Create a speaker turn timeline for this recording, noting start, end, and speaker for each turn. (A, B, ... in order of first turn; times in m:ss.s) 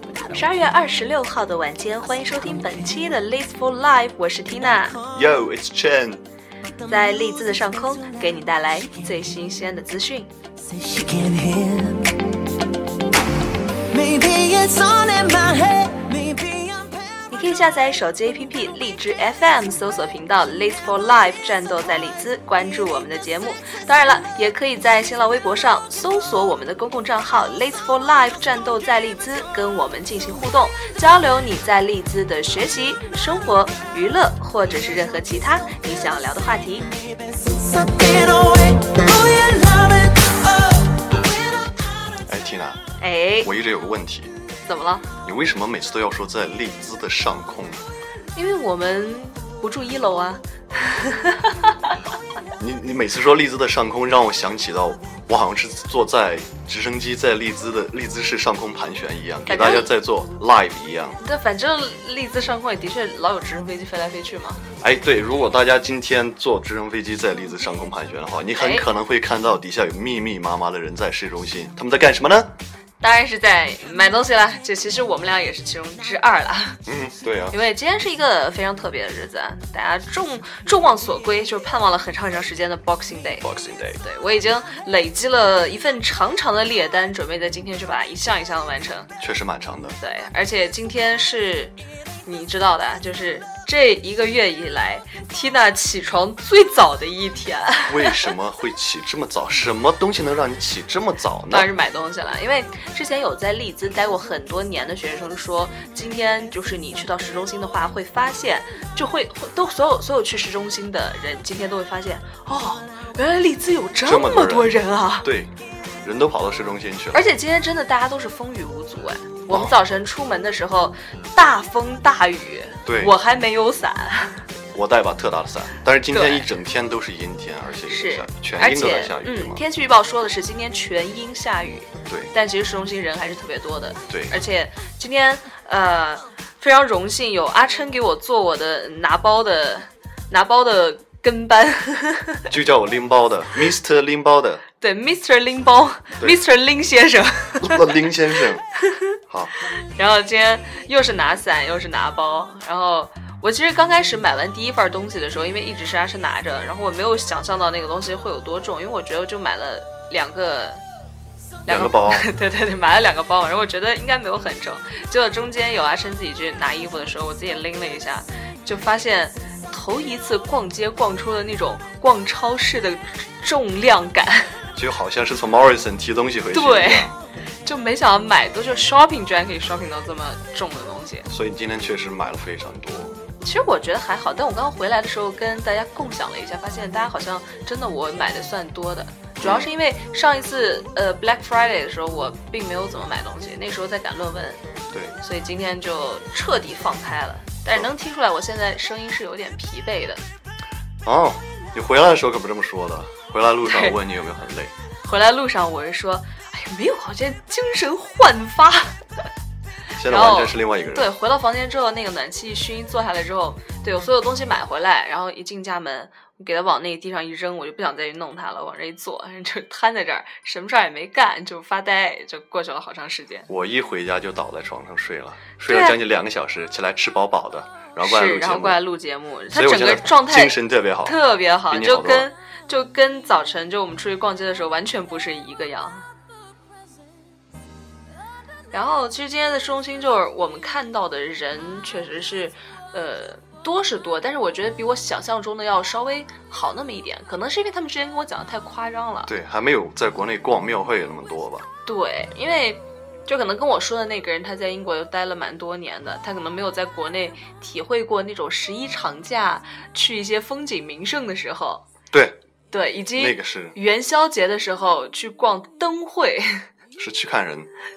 0:00.2-0:05.0 A
0:04.7-0:05.1 B
0:05.1-0:06.2 C
0:06.9-0:10.3 A
0:10.6-0:12.4 B
0:13.9-0:17.2 B
0:17.3-0:36.8 A
0:37.0-0:41.2 B
0:42.3-0:42.8 C
0:43.0-0:43.5 A
0:43.4-0:44.3 C
0:44.6-0:45.1 A
0:45.2-0:47.8 C
0:48.3-0:51.9 A
0:52.6-1:01.2 C
0:59.5-0:59.9 A
1:01.2-1:04.6 A
1:04.8-1:12.5 C
1:08.6-1:08.9 A
1:13.0-1:16.8 A
1:16.8-1:17.6 C
1:17.5-1:23.4 A
1:23.4-1:24.0 C
1:24.0-1:29.1 A
1:29.2-1:30.0 C
1:30.0-1:31.7 A
1:32.2-1:38.3 A
1:37.9-1:41.7 C
1:41.5-1:55.3 A
1:54.0-1:55.5 C
1:56.0-1:57.3 C
1:57.1-2:04.4 A
1:59.5-1:59.8 C
2:02.8-2:03.1 C
2:04.7-2:09.6 C
2:06.1-2:06.5 A
2:07.9-2:22.5 A
2:14.1-2:14.4 C
2:22.5-2:24.6 C
2:24.8-2:28.0 A
2:27.6-2:28.6 C
2:29.3-2:29.5 C
2:29.7-2:40.8 A
2:41.6-2:42.3 C
2:41.6-2:54.6 A
2:54.7-2:57.1 C
2:56.5-2:57.1 A
2:57.6-3:01.3 A
3:01.3-3:03.1 C
3:03.4-3:14.6 A
3:09.4-3:09.7 C
3:14.9-3:15.2 C
3:15.2-3:20.2 A
3:21.0-3:24.7 C
3:23.6-3:24.0 A
3:25.0-3:29.0 A
3:30.0-3:31.1 C
3:30.0-3:43.5 A
3:43.5-3:48.8 C
3:45.6-3:46.0 A
3:48.0-3:56.0 A
3:49.5-3:51.2 C
3:51.7-3:52.3 C
3:58.7-4:09.3 A
4:09.2-4:11.7 C
4:11.8-4:21.8 A
4:22.1-4:22.4 C
4:22.7-4:26.6 A
4:23.2-4:23.8 C
4:27.0-4:27.7 C